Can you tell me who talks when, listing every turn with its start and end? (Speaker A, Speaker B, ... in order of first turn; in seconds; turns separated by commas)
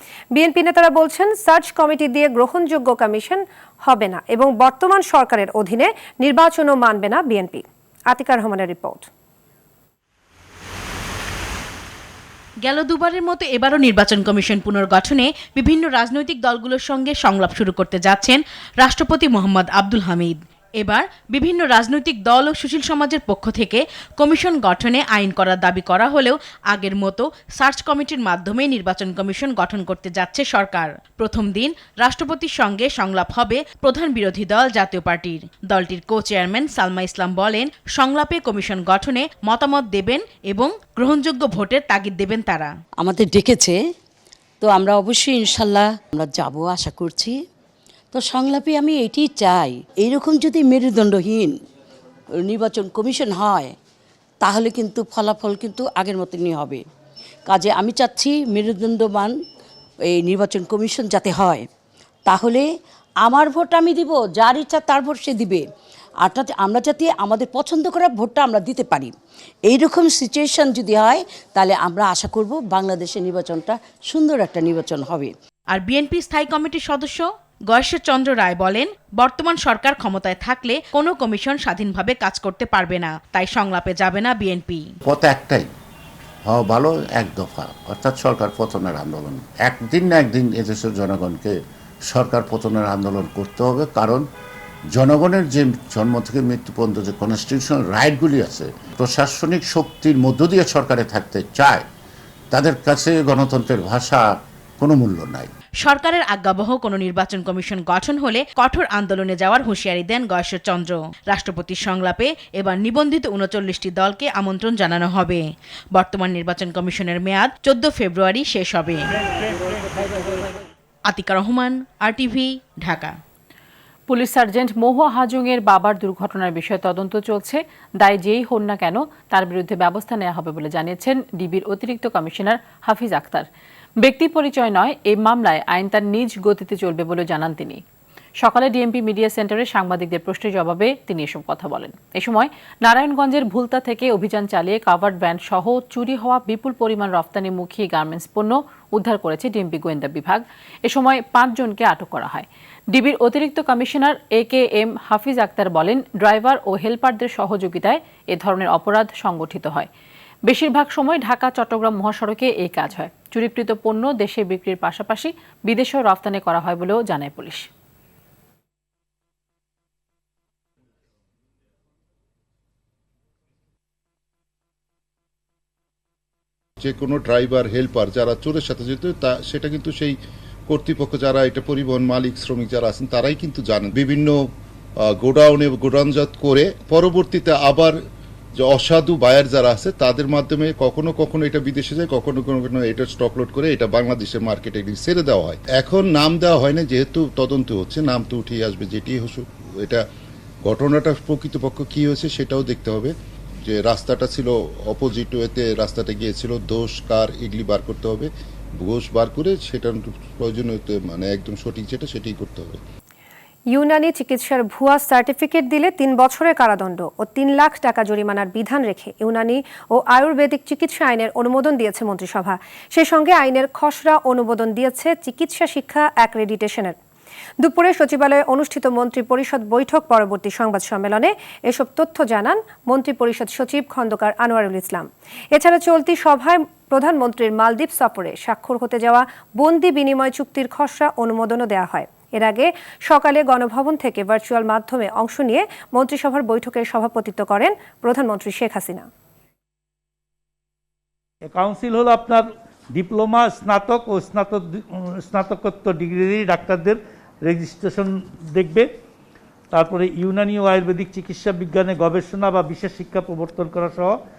Speaker A: 0.3-9.1, Speaker B: 12.6-42.7, Speaker C: 43.0-43.8, Speaker C: 44.6-47.4, Speaker C: 48.1-51.5, Speaker C: 52.4-53.7, Speaker C: 54.4-56.8, Speaker C: 57.5-59.3, Speaker C: 60.1-61.6, Speaker C: 62.3-62.6, Speaker C: 63.2-65.6, Speaker C: 66.2-69.1, Speaker C: 69.7-75.3, Speaker B: 75.7-84.9, Speaker D: 85.0-85.7, Speaker D: 86.5-91.6, Speaker D: 92.1-94.2, Speaker D: 94.9-101.8, Speaker D: 102.5-105.5, Speaker B: 105.8-115.4, Speaker B: 115.9-119.1, Speaker B: 121.1-123.1, Speaker E: 124.1-133.5, Speaker E: 134.0-137.8, Speaker E: 138.4-159.9, Speaker E: 160.5-167.7, Speaker F: 176.8-180.2, Speaker F: 180.7-184.3, Speaker F: 185.2-187.9, Speaker F: 188.6-200.0, Speaker F: 200.7-203.1, Speaker F: 203.6-212.8, Speaker A: 213.7-227.0, Speaker A: 227.6-249.1, Speaker G: 251.5-258.9, Speaker G: 259.7-264.2